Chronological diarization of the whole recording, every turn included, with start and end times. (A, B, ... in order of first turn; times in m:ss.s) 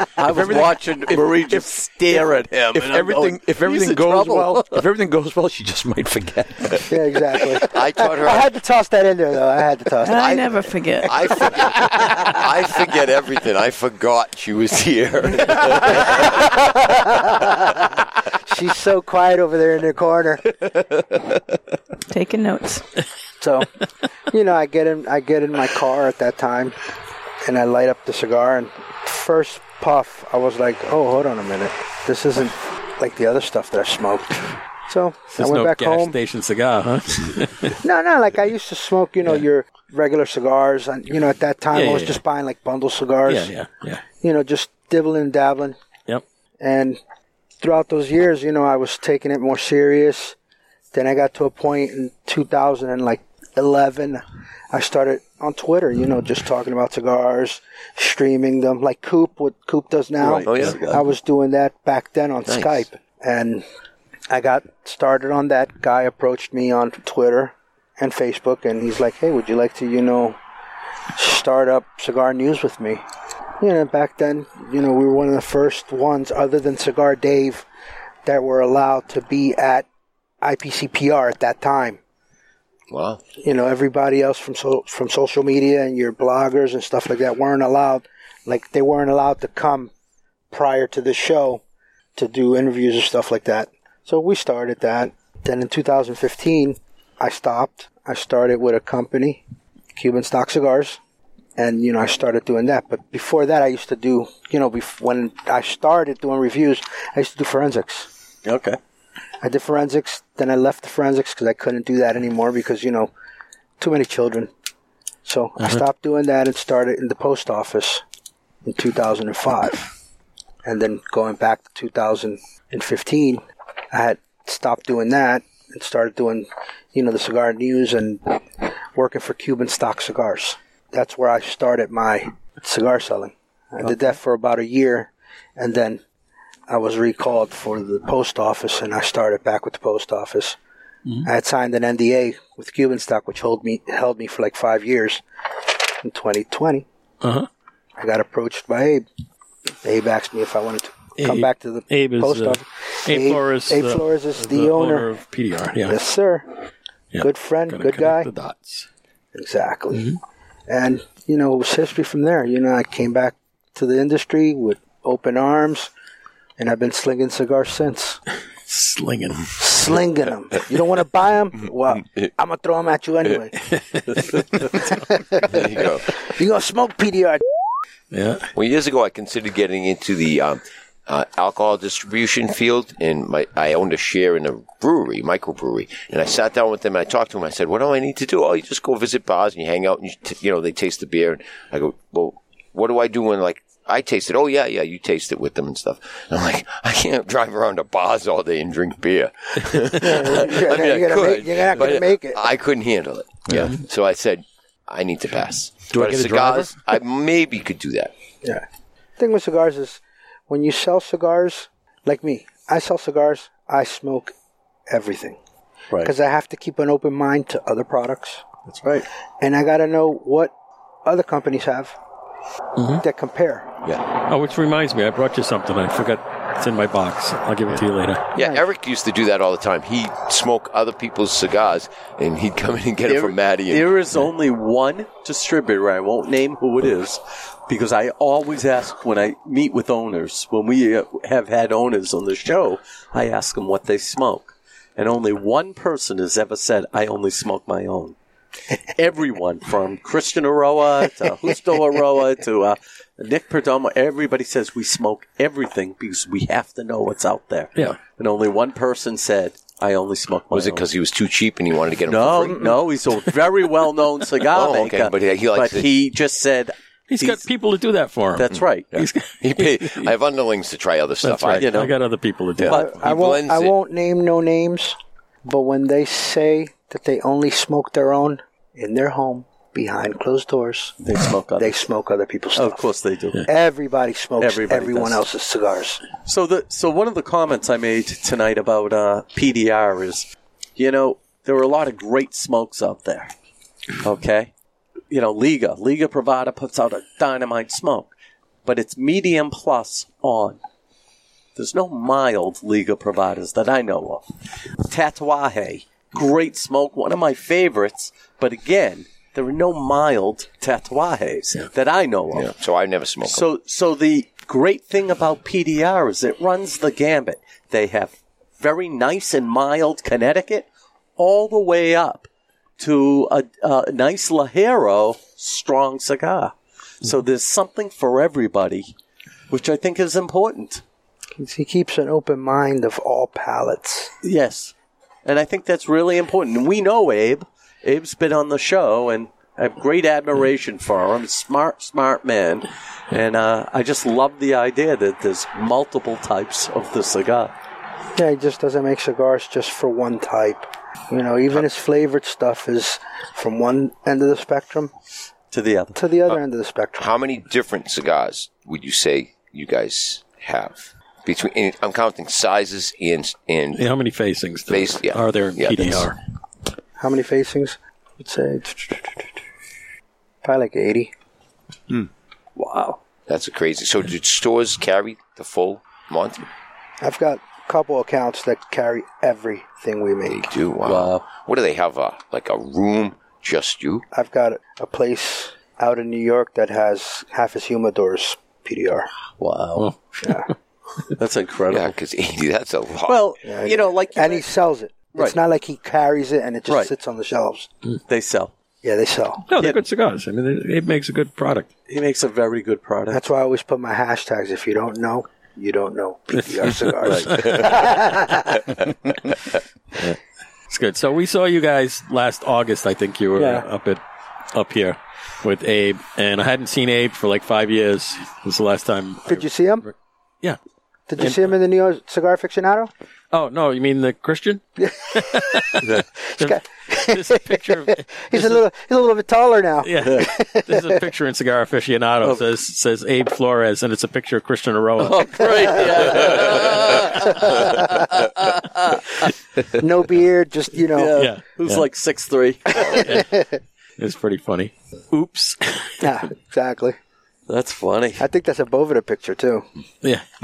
0:00.2-0:04.8 A
0:00.2-0:07.0 B
0:06.9-0:10.4 C
0:07.6-0:08.5 D
0:10.0-0:11.4 E
0:10.1-0:16.5 D
0:11.5-0:12.2 C
0:15.8-0:17.5 C
0:18.3-0:20.8 C
0:22.1-0:22.8 E
0:23.4-0:23.7 C
0:24.3-0:26.8 C
0:27.4-0:36.2 C
0:35.4-0:37.8 F
0:37.8-0:43.5 C
0:41.7-0:42.2 F
0:43.3-0:44.0 F
0:44.2-0:45.8 C
0:46.6-0:47.0 C
0:47.6-0:50.4 C
0:50.9-1:03.7 C
1:00.2-1:01.1 A
1:00.5-1:00.8 D
1:02.5-1:02.8 D
1:04.3-1:10.4 C
1:11.2-1:13.0 C
1:13.6-1:17.7 C
1:18.2-1:19.9 C
1:20.4-1:22.0 C
1:22.9-1:23.2 D
1:23.4-1:29.9 C
1:30.5-1:31.6 C
1:32.2-1:39.4 C
1:40.0-1:41.0 C
1:41.6-1:48.1 C
1:48.4-1:48.8 A
1:49.4-1:53.1 C
1:53.8-1:54.5 C
1:55.2-1:58.0 C
1:58.6-1:59.9 C
2:00.6-2:16.0 C
2:16.7-2:20.6 C
2:21.3-2:25.2 C
2:26.0-2:26.9 C
2:27.2-2:27.5 F
2:28.0-2:29.1 C
2:29.8-2:35.1 C
2:31.2-2:36.0 F
2:35.8-2:36.5 C
2:37.1-2:38.9 F
2:37.2-2:38.3 C
2:39.3-2:40.1 C
2:39.9-2:40.2 F
2:40.7-2:45.9 C
2:46.6-2:48.2 C
2:48.7-2:49.5 F
2:49.6-2:53.8 C
2:53.8-2:54.4 F
2:54.3-2:57.4 C
2:55.5-2:56.2 D
2:58.1-2:58.5 F
2:58.6-3:28.1 D
3:20.0-3:22.4 C
3:23.5-3:23.7 B
3:25.9-3:26.9 B
3:29.2-3:34.3 C
3:34.9-3:35.4 C
3:36.0-3:38.5 C
3:38.7-3:39.1 A
3:39.4-3:40.5 C
3:41.0-3:42.0 C
3:42.8-3:43.0 F
3:43.0-3:43.7 C
3:44.2-3:48.2 F
3:48.4-3:53.9 D
3:48.4-3:48.6 C
3:53.1-4:08.2 A
4:09.0-4:20.8 A
4:20.5-4:22.7 D
4:22.1-4:27.5 A
4:24.5-4:25.9 D
4:27.1-4:30.1 F
4:28.4-4:28.9 A
4:28.5-4:31.9 D
4:31.2-4:32.8 F
4:31.6-4:32.0 A
4:32.6-4:33.7 D
4:32.6-4:33.0 A
4:32.7-4:41.0 C
4:41.0-4:41.8 A
4:41.6-4:42.9 C
4:42.6-4:43.5 A
4:43.5-4:46.1 C
4:44.4-4:45.2 A
4:46.2-4:53.3 A
4:54.0-4:54.5 A
4:55.1-4:58.1 A
4:58.6-5:00.6 A
5:01.6-5:04.3 A
5:04.8-5:12.5 A
5:12.3-5:13.4 D
5:13.2-5:20.7 A
5:21.2-5:22.3 A
5:22.8-5:28.9 A
5:29.5-5:30.8 A
5:31.4-5:34.1 C
5:34.2-5:34.7 A
5:35.2-5:47.5 A
5:48.2-5:54.9 C
5:55.5-5:56.0 A
5:56.0-5:57.1 C
5:57.0-6:03.9 D
6:03.8-6:06.2 F
6:04.7-6:06.1 D
6:07.0-6:09.3 C
6:10.4-6:11.1 C
6:12.6-6:12.9 A
6:13.3-6:16.4 D
6:17.0-6:20.4 C
6:20.3-6:24.0 D
6:20.8-6:21.2 A
6:24.1-6:29.1 C
6:29.4-6:29.9 A
6:29.8-6:30.5 F
6:30.2-6:30.5 C
6:31.1-6:32.0 A
6:31.7-6:33.2 D
6:33.0-6:34.4 A
6:33.4-6:37.7 C
6:38.1-6:38.5 A
6:38.8-6:39.4 C
6:39.5-6:41.7 F
6:41.9-6:43.2 A
6:43.1-6:48.6 C
6:47.0-6:47.8 F
6:47.0-6:47.4 A
6:50.7-6:54.0 F
6:53.4-6:53.7 C
6:54.5-7:00.6 F
6:59.3-6:59.9 C
7:01.1-7:02.9 C
7:01.2-7:01.5 F
7:03.3-7:08.6 F
7:04.8-7:11.0 C
7:09.8-7:16.2 F
7:15.0-7:19.2 A
7:17.4-7:18.1 C
7:19.7-7:21.2 C
7:20.9-7:23.1 A
7:21.1-7:21.9 F
7:22.8-7:23.6 C
7:22.9-7:23.3 F
7:24.0-7:26.0 F
7:26.0-7:27.0 C
7:27.5-7:28.2 A
7:28.2-7:29.7 C